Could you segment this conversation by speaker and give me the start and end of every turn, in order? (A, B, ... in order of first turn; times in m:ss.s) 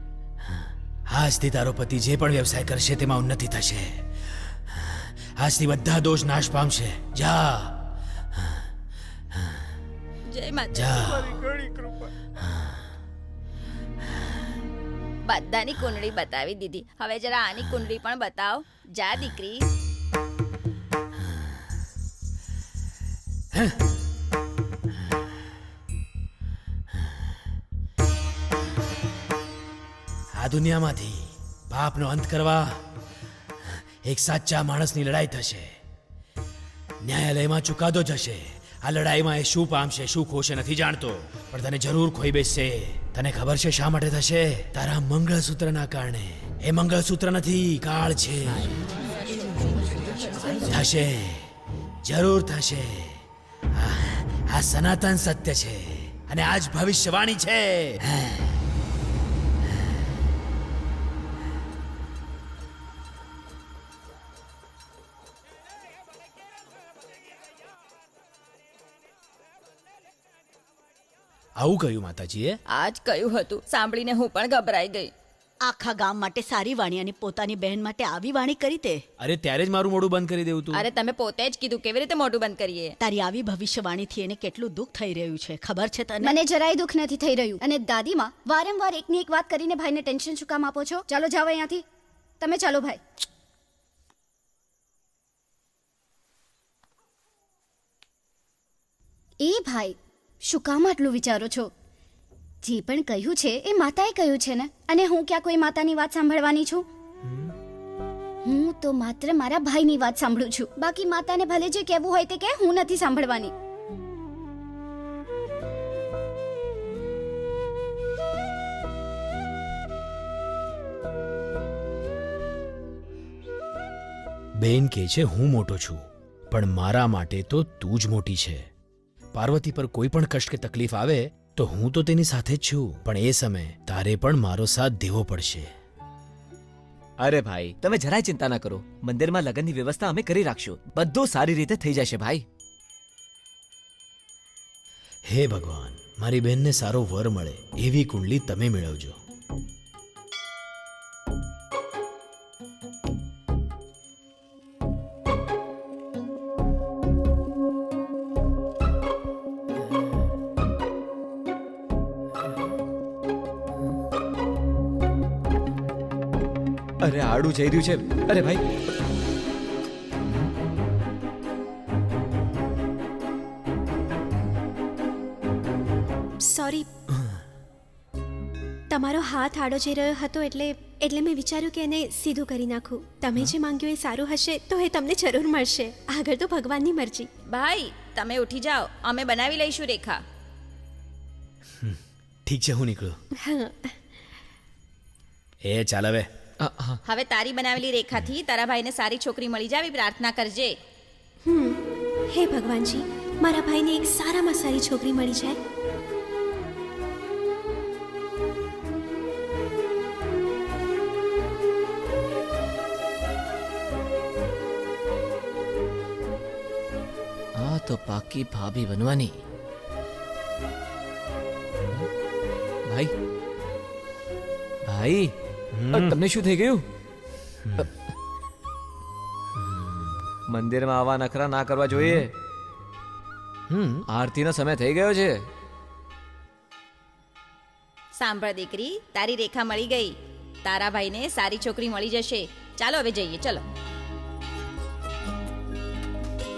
0:01.1-0:04.0 A
0:04.8-0:07.9 A
0:10.3-0:11.2 B
0:10.7-0:11.7 A
0:15.2-0:19.6 B
0:23.5-0:23.8 A
0:30.3-0:32.8 A
0:34.0-0:35.7 A
0:37.0-0:48.7 A
0:50.6-0:51.5 A
0:52.0-0:53.2 A
0:53.7-0:58.4 A
1:11.6-1:12.6 A
1:12.7-1:15.1 B
1:15.6-1:19.0 C
1:19.2-1:20.8 A
1:20.7-1:22.9 B
1:23.0-1:26.4 C
1:26.2-1:31.8 D
1:32.4-1:33.0 D
1:39.4-1:41.7 D
1:42.6-1:46.8 D
1:48.4-1:53.5 D
2:04.6-2:08.7 A
2:09.3-2:15.7 A
2:17.2-2:22.4 E
2:25.3-2:29.2 A
2:47.0-2:48.6 E
2:56.4-2:56.8 F
2:58.9-3:07.3 F
3:07.5-3:10.2 B
3:11.8-3:13.2 A
3:13.4-3:13.9 F
3:15.6-3:16.3 A
3:16.6-3:17.0 E
3:17.0-3:20.8 B
3:21.5-3:21.8 F
3:22.3-3:25.6 F
3:37.5-3:39.4 E
3:42.9-3:43.1 E
3:44.8-3:45.3 E
3:45.7-3:46.2 A
3:45.9-3:46.8 E
3:50.5-3:52.3 E
3:52.0-3:52.2 A
3:53.7-3:54.1 A
3:54.1-3:55.4 E
3:58.2-4:03.6 B